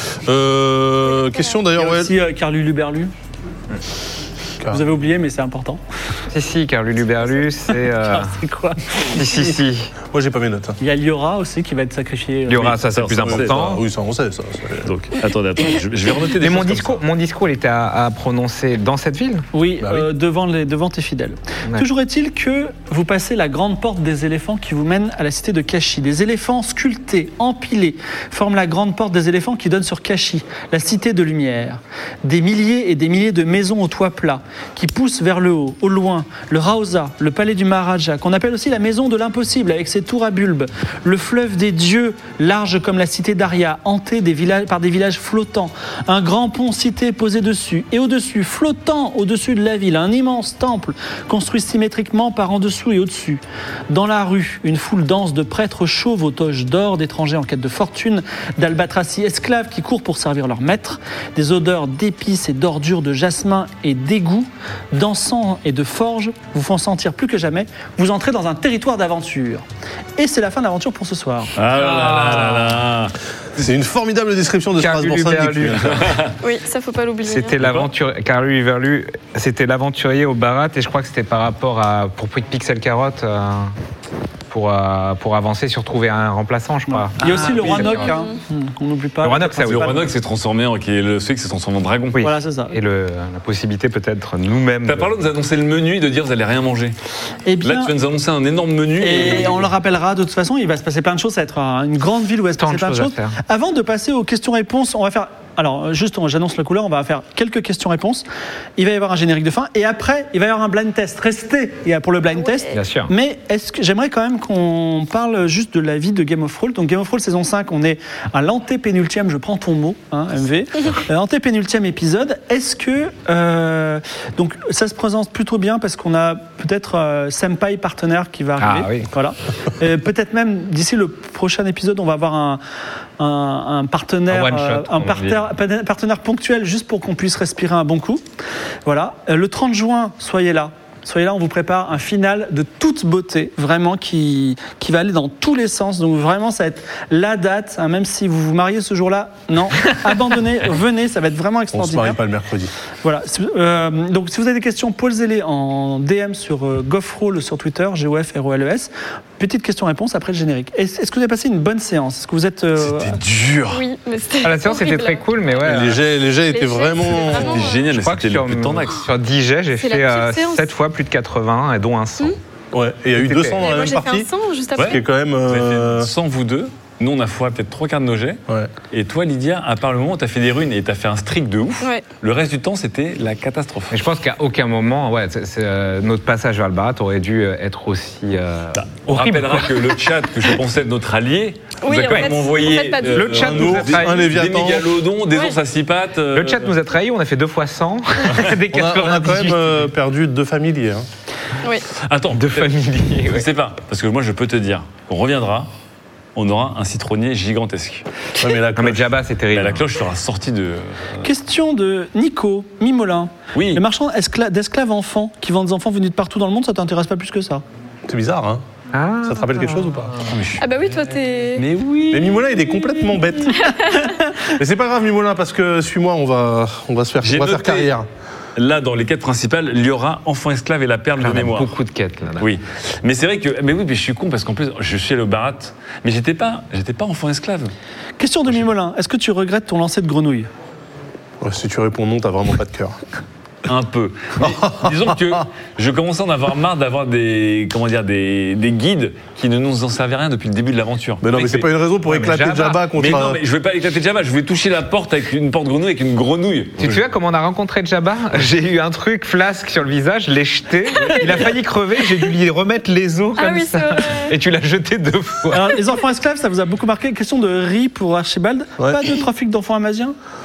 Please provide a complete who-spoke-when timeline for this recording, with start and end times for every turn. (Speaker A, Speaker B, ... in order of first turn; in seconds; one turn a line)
Speaker A: 0.2-2.1
Speaker B: 1.7-3.1
Speaker B: 4.7-5.8
Speaker C: 6.3-8.4
Speaker B: 7.7-9.2
Speaker C: 9.0-9.9
Speaker A: 10.1-10.8
Speaker B: 10.8-12.8
Speaker C: 12.5-13.8
Speaker D: 12.7-13.6
Speaker A: 13.2-14.9
Speaker D: 14.8-17.0
Speaker C: 16.4-19.4
Speaker B: 19.5-69.6
Speaker A: 19.8-20.1
Speaker B: 70.2-71.5
Speaker D: 71.6-73.1
Speaker C: 71.7-72.8
Speaker A: 73.6-76.2
Speaker C: 74.8-76.1
Speaker D: 75.9-76.3
Speaker E: 76.4-77.6
Speaker C: 77.2-83.7
Speaker C: 84.5-88.1
Speaker B: 86.9-90.0
Speaker D: 87.2-87.7
Speaker E: 87.8-88.3
Speaker C: 89.2-90.0
Speaker D: 89.6-92.2
Speaker C: 92.1-95.1
Speaker B: 92.2-92.8
Speaker D: 94.8-96.9
Speaker B: 97.5-97.9
Speaker D: 97.6-99.7
Speaker B: 99.0-108.2
Speaker C: 102.6-103.3
Speaker B: 108.8-132.6
Speaker C: 112.7-113.1
Speaker C: 128.6-129.1
Speaker B: 133.2-138.2
Speaker C: 134.3-135.4
Speaker B: 138.8-152.2
Speaker A: 151.7-152.7
Speaker B: 153.0-163.2
Speaker D: 162.8-163.8
Speaker E: 163.7-165.3
Speaker C: 164.4-166.0
Speaker A: 165.6-167.7
Speaker E: 166.5-167.9
Speaker D: 167.1-169.1
Speaker C: 167.9-172.4
Speaker E: 169.8-170.7
Speaker A: 172.7-176.1
Speaker C: 173.1-173.8
Speaker E: 173.6-175.0
Speaker D: 174.8-184.0
Speaker C: 183.9-189.8
Speaker D: 188.8-196.8
Speaker E: 191.8-193.3
Speaker C: 191.9-192.3
Speaker C: 193.0-194.4
Speaker A: 193.3-195.0
Speaker C: 196.3-199.9
Speaker A: 198.7-201.1
Speaker D: 202.0-202.7
Speaker C: 202.3-203.5
Speaker D: 203.3-205.7
Speaker D: 206.3-208.0
Speaker A: 208.4-209.1
Speaker C: 208.7-209.8
Speaker D: 209.5-211.2
Speaker B: 211.2-217.6
Speaker D: 213.5-213.8
Speaker A: 218.1-218.6
Speaker C: 218.9-220.3
Speaker A: 219.2-220.2
Speaker D: 220.3-220.7
Speaker E: 220.6-221.7
Speaker D: 221.6-222.0
Speaker A: 222.1-223.7
Speaker E: 223.1-224.1
Speaker B: 223.8-224.4
Speaker A: 224.5-228.1
Speaker D: 227.2-227.9
Speaker D: 228.6-231.7
Speaker C: 231.2-232.5
Speaker D: 232.4-237.7
Speaker B: 238.2-240.5
Speaker A: 241.4-243.0
Speaker D: 243.6-251.7
Speaker A: 244.4-245.1
Speaker A: 251.2-253.4
Speaker C: 252.1-252.9
Speaker D: 252.9-256.9
Speaker C: 256.8-265.8
Speaker E: 263.4-264.3
Speaker B: 265.5-270.1